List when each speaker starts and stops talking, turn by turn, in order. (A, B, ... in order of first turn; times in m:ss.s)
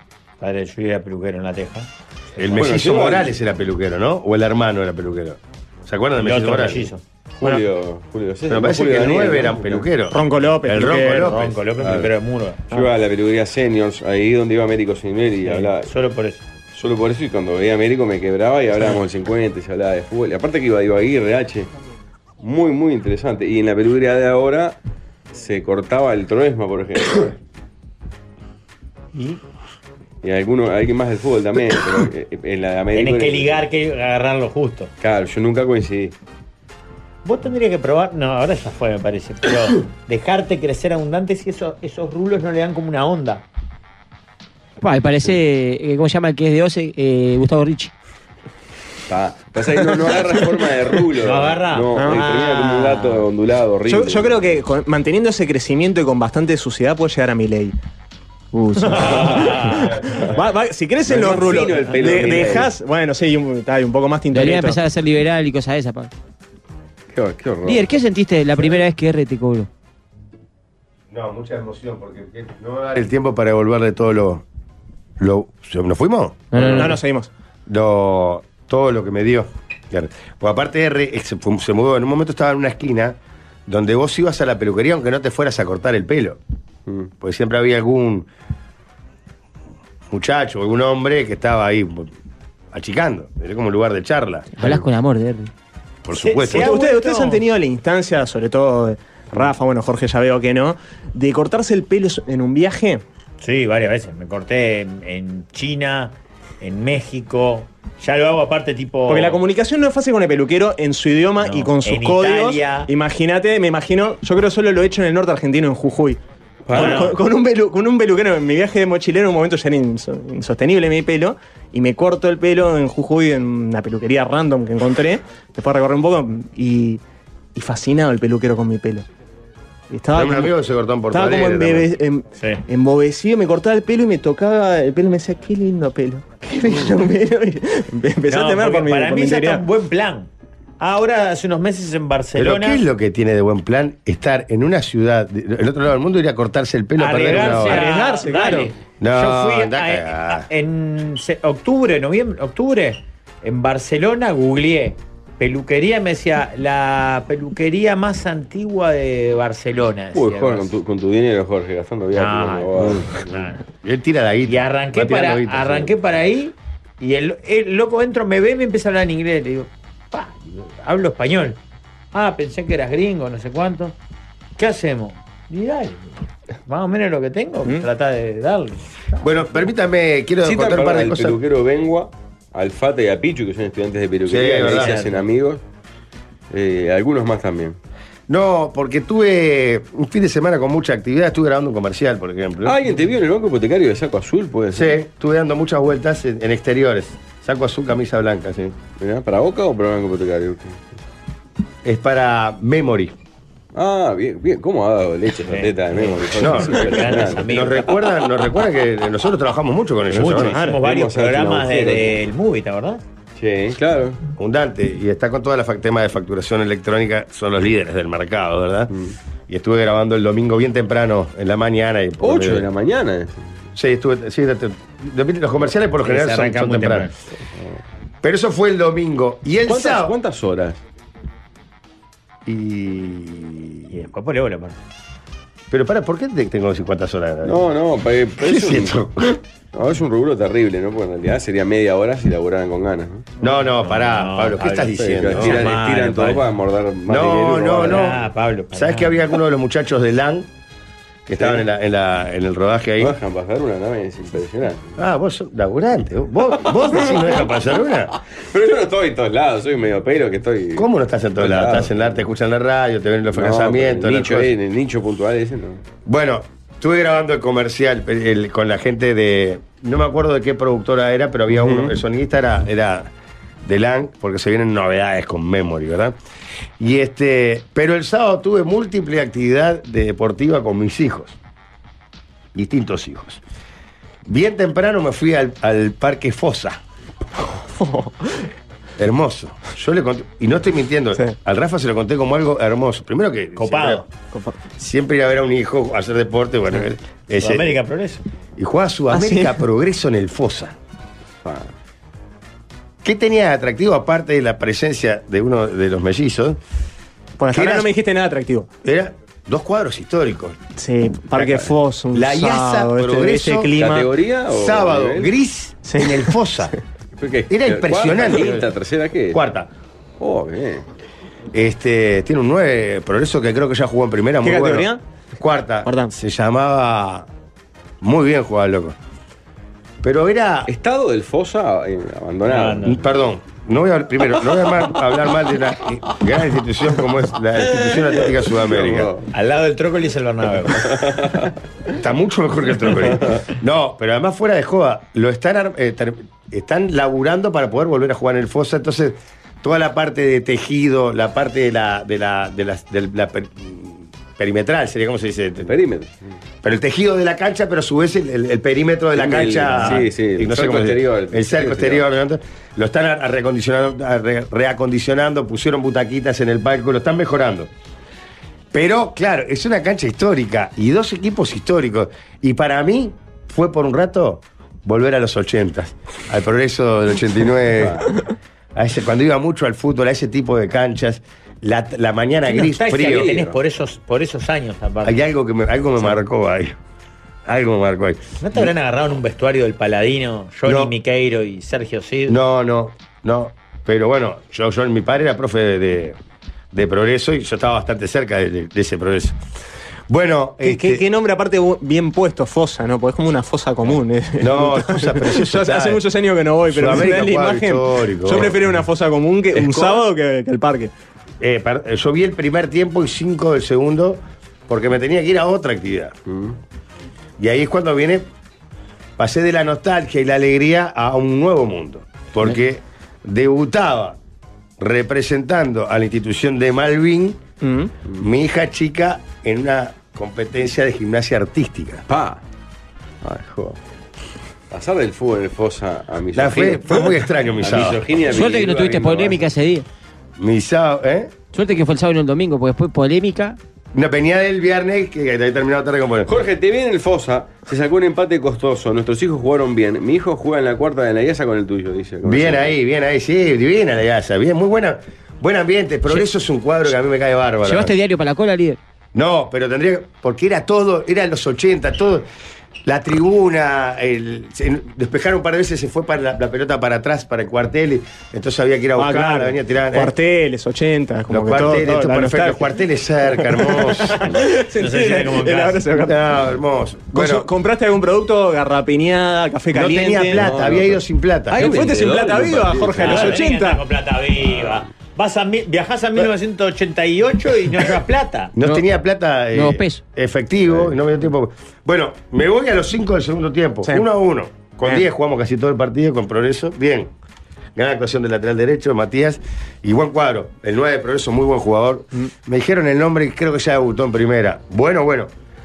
0:00.4-0:01.9 A
0:02.4-0:06.9 B
0:02.6-0:03.3 C
0:06.2-0:07.0 A
0:07.4-0:09.8 C
0:08.5-0:11.6 B
0:10.1-0:11.3 D
0:11.1-0:12.6 A
0:11.8-0:12.1 C
0:12.7-0:15.9 C
0:15.4-0:16.4 A
0:16.7-0:21.7 C
0:22.4-0:24.8 C
0:25.3-0:27.4 C
0:30.2-0:33.6 C
0:32.9-0:34.9 A
0:35.0-0:36.1 C
0:37.2-0:43.4 A
0:44.8-0:47.9 E
0:49.1-0:54.5 C
0:51.2-0:53.2 A
0:52.0-0:52.2 D
0:53.9-0:57.8 D
0:58.5-1:04.8 D
0:58.8-0:59.9 A
0:58.9-0:59.6 C
1:01.0-1:02.7 C
1:04.3-1:06.1 E
1:07.1-1:07.9 C
1:07.6-1:09.7 E
1:11.1-1:14.4 B
1:15.2-1:16.6 B
1:16.5-1:17.0 E
1:16.5-1:16.9 C
1:16.7-1:17.3 D
1:17.6-1:26.4 B
1:27.2-1:28.3 B
1:30.1-1:32.1 B
1:32.7-1:34.8 B
1:34.5-1:35.5 E
1:36.0-1:36.7 B
1:36.1-1:37.4 A
1:36.5-1:43.0 D
1:43.4-1:49.4 A
1:49.1-1:56.2 D
1:51.4-1:52.9 A
1:56.7-1:57.1 C
1:56.7-2:07.0 D
1:56.7-1:57.2 A
2:07.5-2:09.0 D
2:09.9-2:10.5 D
2:10.1-2:11.9 B
2:11.1-2:19.6 D
2:18.3-2:20.3 A
2:20.8-2:22.8 A
2:22.3-2:27.9 B
2:27.0-2:40.7 A
2:27.3-2:28.7 D
2:29.0-2:30.5 B
2:40.1-2:43.3 C
2:42.1-2:43.6 A
2:43.7-2:45.9 B
2:44.5-2:51.6 A
2:52.1-2:53.9 A
2:54.6-2:56.1 A
2:56.7-2:59.3 A
2:59.2-3:01.4 B
3:00.4-3:05.6 C
3:04.2-3:05.0 B
3:04.4-3:05.2 A
3:06.5-3:07.8 C
3:08.3-3:12.8 B
3:12.6-3:15.0 C
3:14.7-3:18.8 B
3:19.0-3:20.8 C
3:21.8-3:23.1 B
3:23.7-3:27.7 C
3:25.5-3:27.9 A
3:26.3-3:30.6 B
3:30.1-3:33.0 A
3:30.2-3:32.2 C
3:30.5-3:30.8 D
3:33.4-3:34.2 C
3:34.4-3:38.9 B
3:39.5-3:42.6 B
3:42.2-3:43.6 C
3:43.7-3:47.1 B
3:46.0-3:47.1 A
3:48.2-3:50.1 B
3:49.6-3:50.8 C
3:52.4-3:53.9 B
3:53.9-3:54.8 A
3:55.7-3:57.7 B
3:57.4-3:59.0 C
3:58.4-3:59.4 B
3:59.7-4:03.3 C
4:03.4-4:05.7 B
4:03.5-4:06.5 A
4:04.9-4:08.1 C
4:07.1-4:10.5 B
4:07.8-4:09.2 A
4:11.2-4:13.2 B
4:11.4-4:11.6 C
4:13.0-4:14.9 C
4:15.0-4:18.1 B
4:18.4-4:20.8 C
4:20.7-4:24.5 B
4:21.4-4:22.1 C
4:23.3-4:25.8 C
4:26.0-4:33.1 B
4:31.5-4:32.0 C
4:33.6-4:36.2 B
4:36.8-4:41.4 B
4:42.5-4:43.4 B
4:44.2-4:46.8 B
4:47.5-4:48.4 D
4:49.0-4:54.0 B
4:53.6-4:54.0 A
4:54.3-4:54.6 D
4:54.8-4:57.8 B
4:57.4-4:58.2 A
4:58.6-5:00.8 B
4:59.1-4:59.6 D
5:01.4-5:01.7 C
5:03.0-5:06.6 B
5:07.4-5:08.7 D
5:07.5-5:07.9 B
5:08.8-5:10.6 B
5:10.8-5:14.1 D
5:11.4-5:11.7 C
5:12.1-5:13.8 B
5:13.8-5:15.3 C
5:14.5-5:16.7 B
5:15.8-5:16.4 D
5:17.2-5:19.4 C
5:17.5-5:18.7 B
5:19.3-5:19.7 B
5:20.2-5:20.8 C
5:21.5-5:27.3 B
5:24.4-5:25.0 D
5:25.8-5:26.1 D
5:28.0-5:29.0 B
5:30.0-5:30.7 B
5:30.7-5:33.0 C
5:32.5-5:33.0 A
5:32.8-5:39.1 B
5:38.5-5:39.3 C
5:39.3-5:40.9 A
5:40.8-5:41.5 C
5:41.9-5:55.7 B
5:43.0-5:43.4 C
5:55.6-5:56.4 C
5:56.6-6:07.7 B
5:59.1-6:02.0 C
6:08.7-6:18.1 B
6:17.8-6:18.1 C
6:18.7-6:23.5 B
6:22.5-6:25.2 A
6:23.1-6:23.5 C
6:25.0-6:26.8 B
6:27.4-6:28.7 B
6:28.4-6:32.4 A
6:30.6-6:30.9 B
6:32.3-6:36.2 B
6:36.7-6:39.4 B
6:40.1-6:41.0 B
6:40.6-6:50.9 D
6:44.4-6:46.0 B
6:46.7-6:48.6 B
6:49.5-6:50.0 B
6:51.4-6:56.1 B
6:56.3-6:56.6 C
6:57.4-6:58.3 B
6:59.2-7:04.2 B
7:04.8-7:07.4 B
7:07.6-7:07.9 D
7:08.2-7:12.0 B
7:12.1-7:12.4 C
7:13.2-7:13.8 C
7:14.7-7:19.4 C
7:16.3-7:18.0 B
7:18.2-7:19.8 E
7:20.4-7:21.3 B
7:21.5-7:23.6 E
7:23.9-7:26.3 B
7:26.2-7:32.8 C
7:32.2-7:37.9 B
7:37.6-7:38.8 E
7:39.1-7:42.2 B
7:42.8-7:50.1 B
7:49.0-7:52.7 D
7:51.3-7:54.3 B
7:53.4-7:56.3 D
7:54.8-7:55.8 A
7:55.9-7:57.5 B
7:57.1-8:00.5 D
7:59.7-8:02.2 B
8:00.3-8:03.4 C
8:01.5-8:03.8 D
8:03.0-8:08.5 A
8:04.5-8:04.7 C
8:08.6-8:17.1 B
8:08.6-8:08.8 E
8:09.5-8:10.0 E
8:17.7-8:25.3 B